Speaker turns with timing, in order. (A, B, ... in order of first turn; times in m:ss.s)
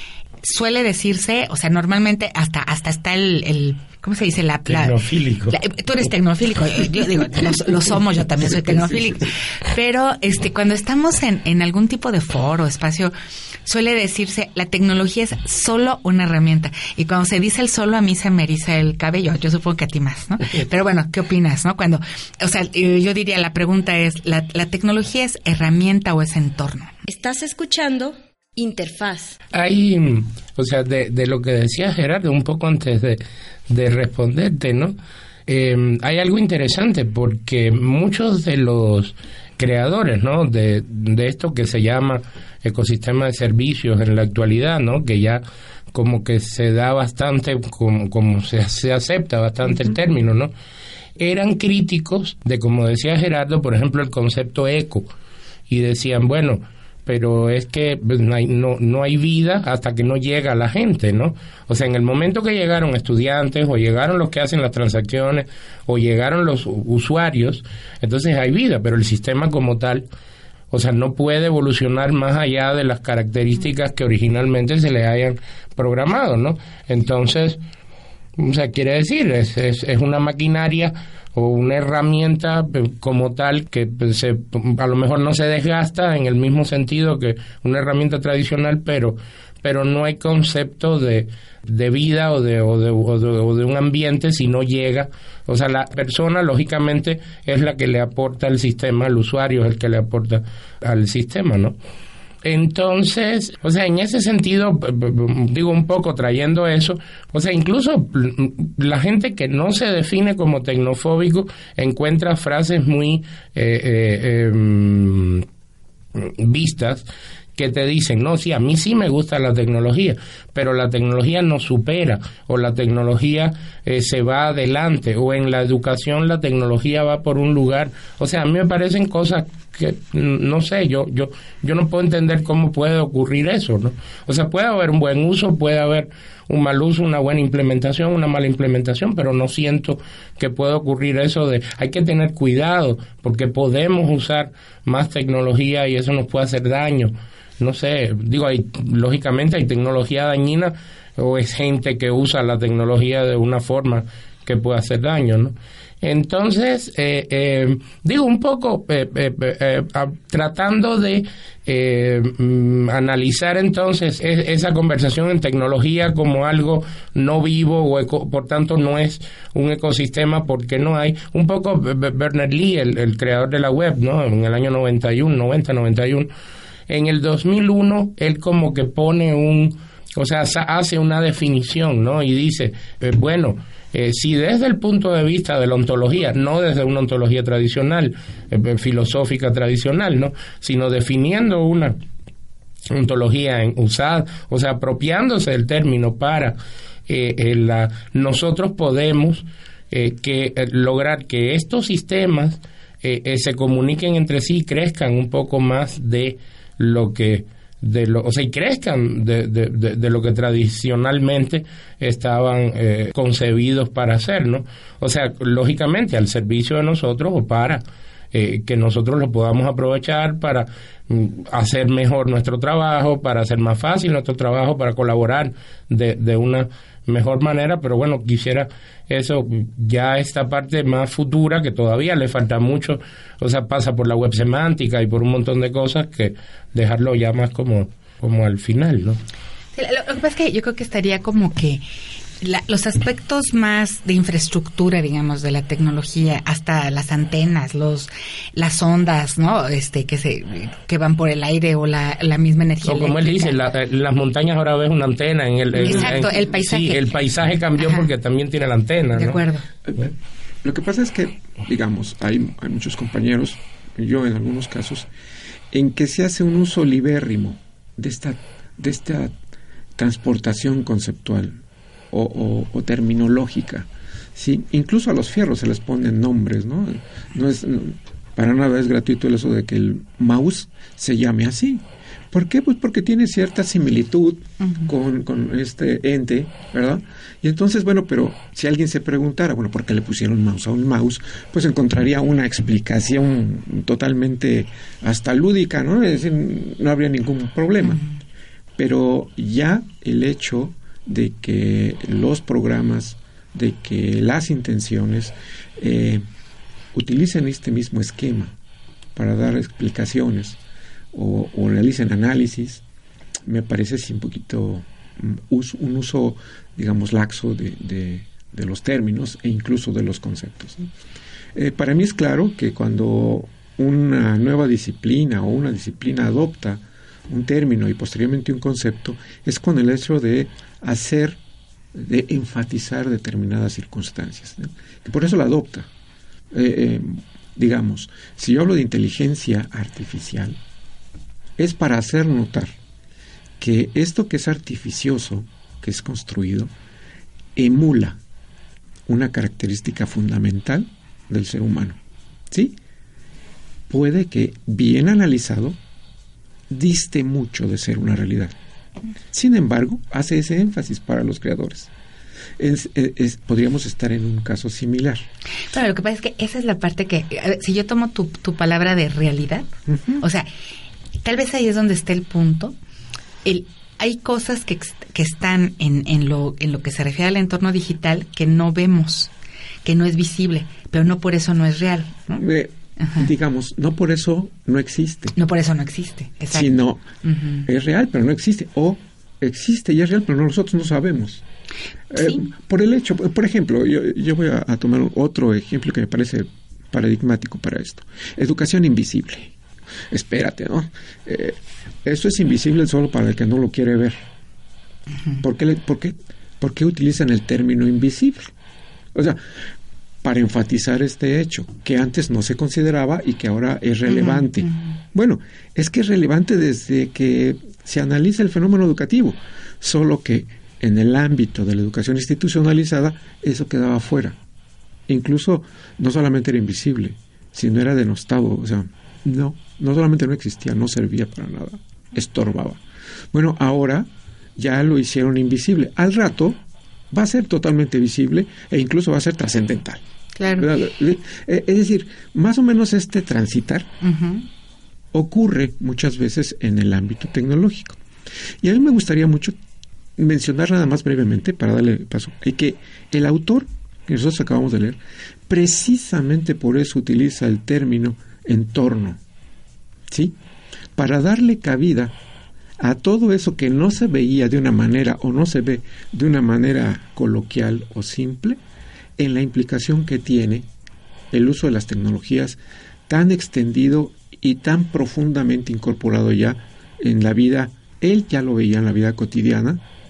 0:00.4-0:13.1 A
0:04.7-0:05.6 B
0:13.6-0:26.9 A
0:27.0-0:29.4 C
0:29.5-0:35.0 B
0:35.5-0:50.5 B
0:51.2-0:55.1 B
0:55.7-1:10.0 B
1:10.7-1:17.6 B
1:18.4-1:41.8 B
1:42.4-1:55.4 B
1:56.2-2:56.3 B
2:56.9-3:12.0 B
3:12.9-3:16.6 B
3:17.1-3:37.8 B
3:38.3-3:59.2 B
3:59.7-4:01.8 A
4:02.4-4:13.6 A
4:12.8-4:19.4 B
4:15.7-4:17.1 A
4:17.8-4:18.1 A
4:19.1-4:19.6 A
4:19.8-4:20.1 D
4:20.6-4:25.1 D
4:25.7-4:29.3 D
4:30.0-4:58.0 D
4:58.8-5:06.2 D
5:06.9-5:08.5 D
5:09.2-5:10.6 D
5:11.1-5:12.8 D
5:13.4-5:20.9 D
5:21.5-5:31.4 D
5:31.9-5:35.9 D
5:36.5-5:40.6 D
5:41.6-5:42.7 D
5:43.6-5:46.7 D
5:47.6-5:48.2 D
5:49.1-5:52.0 D
5:52.5-5:52.8 D
5:53.9-5:55.8 D
5:56.7-5:58.5 D
5:59.3-6:01.9 D
6:02.6-6:05.2 D
6:05.7-6:10.5 A
6:09.9-6:10.2 D
6:11.2-6:12.8 A
6:13.4-6:19.3 A
6:19.8-6:22.4 A
6:22.4-6:25.4 D
6:23.0-6:23.2 A
6:25.4-6:27.7 A
6:26.5-6:27.1 D
6:27.6-6:31.4 D
6:32.1-6:39.5 D
6:32.1-6:32.4 A
6:40.1-6:44.2 D
6:45.4-6:48.5 D
6:50.2-7:04.4 D
6:54.1-6:54.8 A
7:05.1-7:12.8 D
7:13.3-7:16.6 D
7:17.1-7:20.0 D
7:20.4-7:20.7 A
7:20.5-7:23.9 D
7:24.0-7:24.4 A
7:25.1-7:28.0 D
7:28.6-7:29.6 D
7:30.2-7:39.2 D
7:40.1-7:40.3 D
7:41.0-7:42.1 D
7:42.8-7:48.6 D
7:49.2-7:50.7 D
7:51.3-7:52.6 D
7:53.1-7:59.8 D